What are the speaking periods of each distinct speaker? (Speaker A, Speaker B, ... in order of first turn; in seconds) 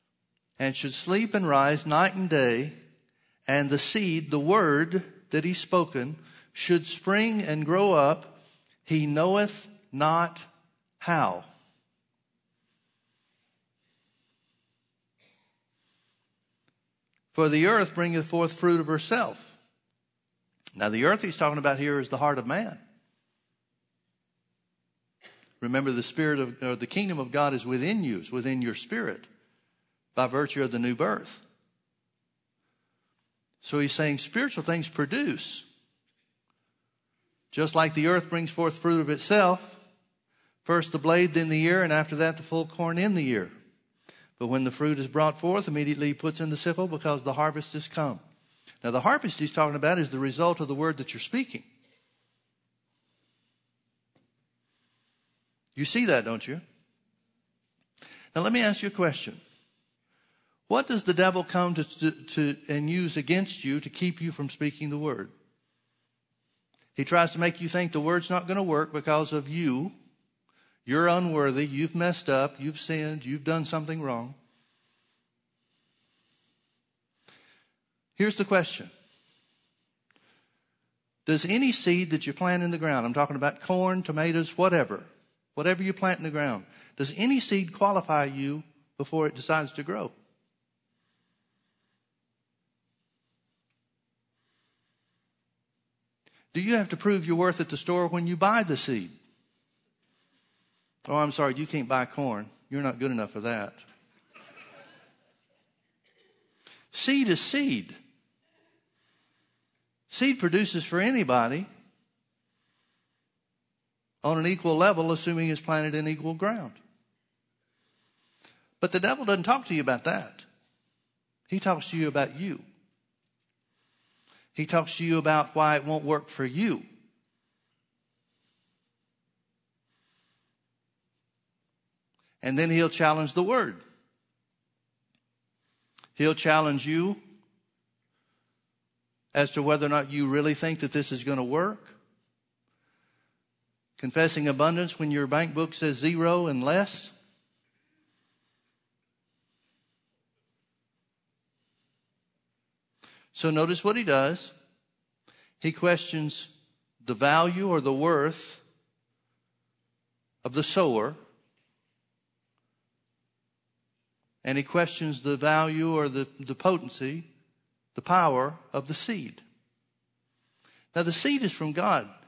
Speaker A: 0.6-2.7, 3.5-10.4, 11.0-11.5, 17.3-19.6, 20.8-22.8, 25.6-29.3, 30.1-31.4, 33.6-35.6, 37.5-39.8, 40.6-43.5, 44.4-48.2, 48.8-51.6, 55.7-56.6, 58.3-59.4, 60.7-65.3, 66.9-69.9, 70.8-74.3, 78.2-78.9, 81.2-90.1, 96.5-99.1, 101.0-103.8, 106.9-108.0, 110.1-111.7, 114.2-116.8, 118.8-120.4, 121.5-122.6, 124.5-126.8, 132.4-133.8, 136.2-137.2, 139.3-142.0, 144.0-147.1, 153.3-154.5, 155.6-156.5, 157.0-158.6, 160.4-161.2, 164.4-167.2, 167.9-169.4, 170.9-172.1